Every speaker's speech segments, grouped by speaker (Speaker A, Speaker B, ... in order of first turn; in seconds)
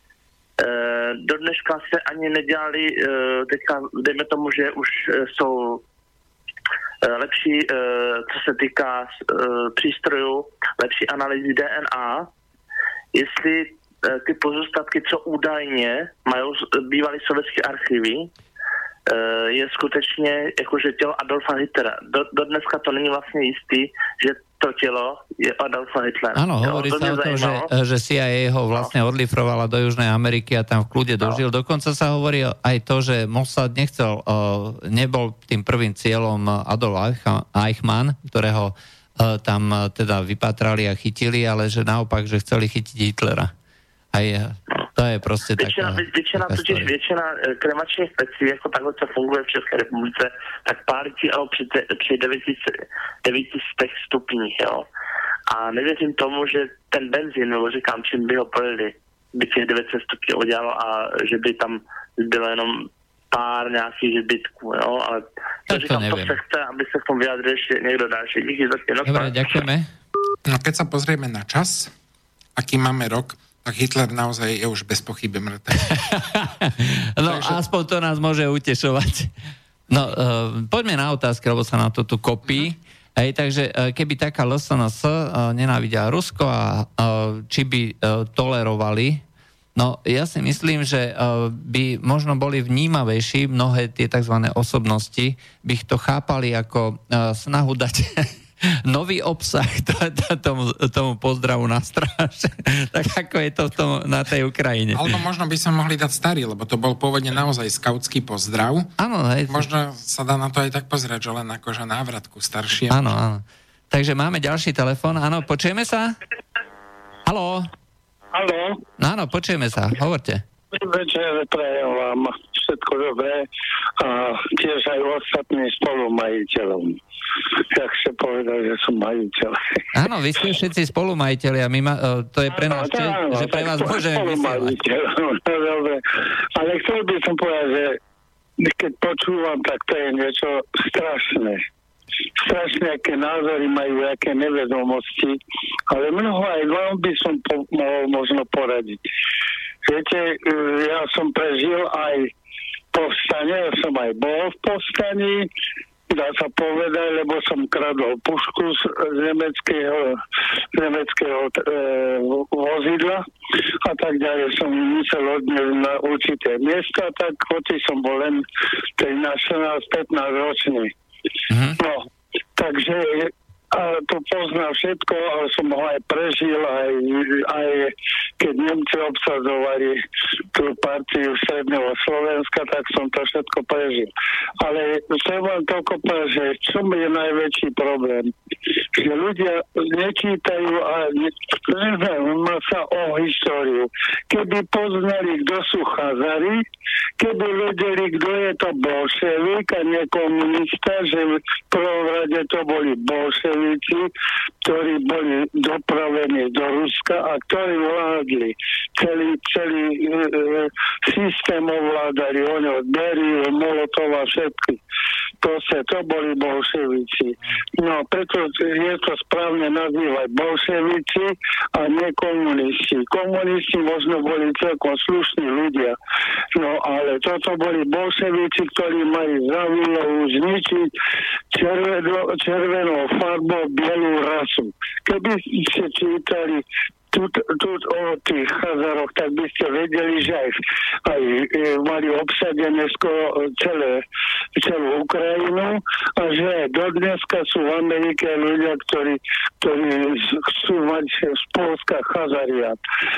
Speaker A: 0.6-5.8, 7.0-12.3, 13.1-18.3, 19.1-27.7, 45.6-54.9, 55.5-69.4
Speaker B: 26.3-43.5, 44.1-46.9, 65.7-66.3, 69.0-69.9, 76.1-79.3, 79.9-89.2, 89.8-105.0, 109.0-109.7, 112.9-116.2, 117.2-117.7, 119.0-120.4, 129.9-134.8, 171.5-171.8
Speaker C: 70.5-71.9, 72.5-76.1, 77.2-77.6, 104.9-108.9, 109.5-113.1
Speaker D: 118.3-118.8, 120.7-123.5, 124.0-127.0, 127.7-129.8, 132.5-136.0, 136.6-138.0, 138.6-141.6, 142.4-145.4, 145.9-149.0, 149.9-152.3, 152.9-155.5, 156.1-160.2, 160.7-163.2, 163.8-168.4, 169.0-170.9, 171.8-172.0, 172.6-180.0, 180.5-188.3, 188.9-196.6, 197.2-204.1, 204.6-214.8, 215.4-226.0, 226.5-230.9, 231.5-244.0, 244.6-252.8